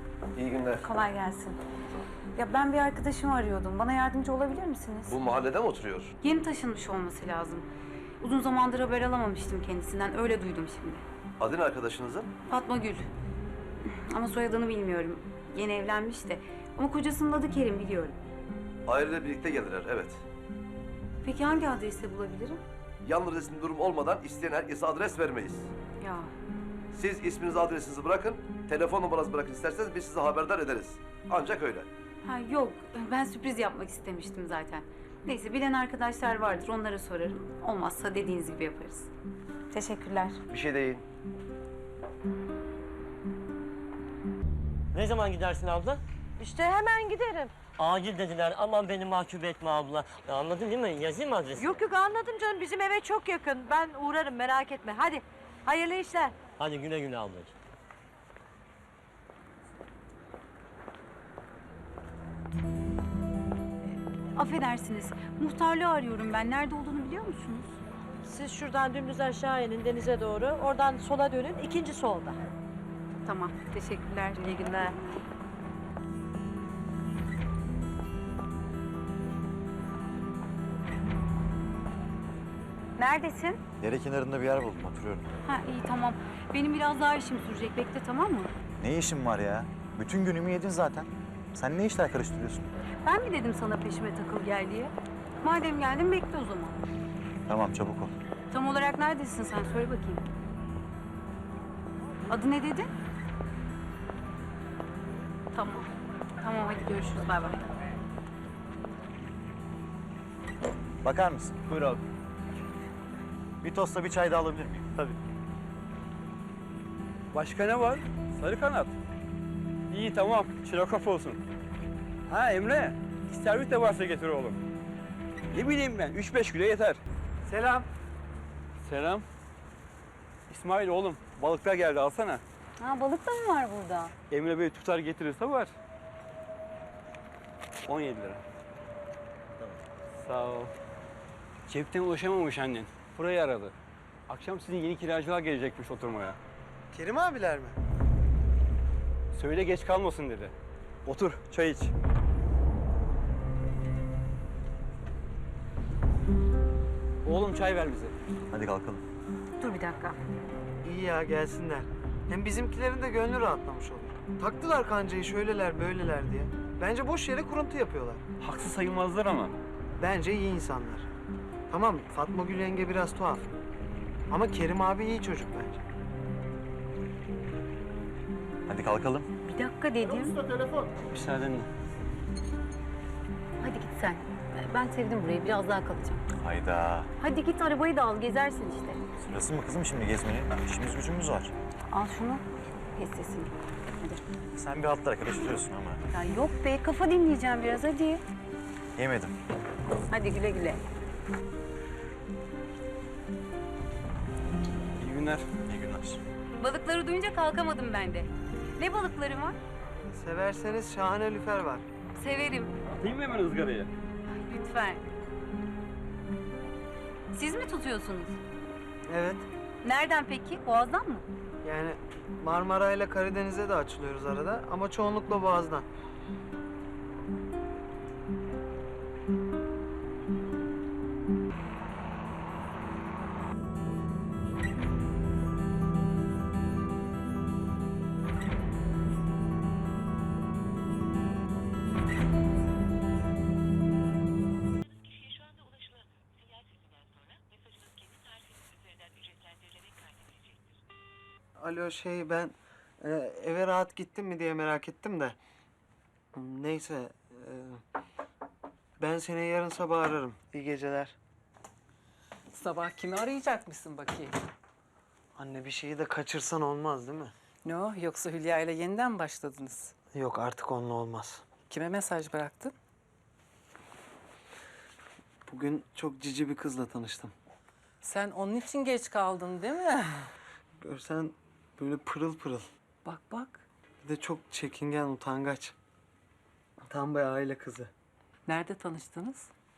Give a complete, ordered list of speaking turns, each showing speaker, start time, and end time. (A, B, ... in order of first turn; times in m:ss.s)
0:00.4-0:00.9 A
0:00.8-0:01.6 B
0:02.4-0:05.2 B
0:05.1-0:06.1 A
0:06.2-0:07.7 B
0:08.2-0:11.0 B
0:11.4-0:12.3 A
0:12.5-0:13.1 B
0:13.8-0:18.2 B
0:18.9-0:20.2 A
0:21.2-0:22.6 B
0:23.0-0:25.7 A
0:26.0-0:26.3 B
0:26.9-0:31.9 A
0:32.2-0:39.1 B
0:39.7-0:40.4 B
0:40.5-0:41.0 A
0:44.9-0:46.0 C
0:46.4-0:47.6 D
0:47.7-0:51.8 C
0:51.6-0:56.4 D
0:56.5-0:57.5 C
1:04.4-1:07.7 B
1:08.3-1:12.4 D
1:13.2-1:15.0 B
1:14.4-1:15.0 D
1:23.0-1:23.6 B
1:23.8-1:25.3 E
1:25.4-1:28.5 B
1:28.8-1:32.7 E
1:33.0-1:36.8 B
1:37.5-1:38.1 E
1:38.5-1:40.2 B
1:42.3-1:42.9 B
1:45.5-1:45.9 B
1:46.4-1:47.6 B
1:51.0-1:51.6 E
1:53.6-1:55.2 E
1:57.3-1:58.9 F
1:59.9-2:01.4 F
2:02.3-2:04.6 F
2:05.5-2:07.0 F
2:07.4-2:07.9 G
2:08.8-2:09.3 F
2:10.5-2:12.4 F
2:12.8-2:14.1 B
2:14.3-2:15.7 F
2:17.9-2:18.4 F
2:20.2-2:20.7 F
2:21.7-2:23.8 F
2:24.3-2:26.4 F
2:26.9-2:27.8 G
2:29.3-2:30.5 F
2:31.0-2:31.9 F
2:37.2-2:38.1 F
2:38.5-2:39.0 E
2:39.6-2:40.2 B
2:40.8-2:48.2 G
2:48.4-2:49.6 F
2:50.0-2:51.1 G
2:51.7-2:53.4 G
2:54.3-2:55.8 G
2:58.7-2:59.3 E
2:59.4-3:00.4 B
3:01.1-3:01.7 F
3:03.6-3:06.2 B
3:06.4-3:07.1 E
3:07.2-3:09.0 B
3:09.2-3:11.5 E
3:11.9-3:12.4 B
3:13.0-3:14.2 B
3:14.5-3:16.0 E
3:16.1-3:18.2 B
3:19.0-3:19.4 E
3:20.1-3:20.8 B
3:25.0-3:25.5 F
3:25.6-3:26.2 E
3:26.6-3:29.6 B
3:30.0-3:31.8 G
3:32.2-3:32.7 B
3:32.9-3:33.9 F
3:34.3-3:35.0 B
3:37.3-3:38.4 B
3:39.1-3:39.5 G
3:39.8-3:41.3 B
3:41.6-3:45.9 G
4:11.6-4:15.4 G
4:16.3-4:17.8 G
4:19.0-4:21.2 G
4:22.5-4:24.3 H
4:25.4-4:27.3 G
4:27.6-4:29.9 H
4:30.1-4:31.4 G
4:31.7-4:32.7 H
4:35.5-4:37.3 G
4:38.0-4:40.3 H
4:40.8-4:42.7 G
4:43.0-4:43.6 H
4:44.0-4:45.8 G
4:46.8-4:47.9 G
4:48.5-4:49.5 H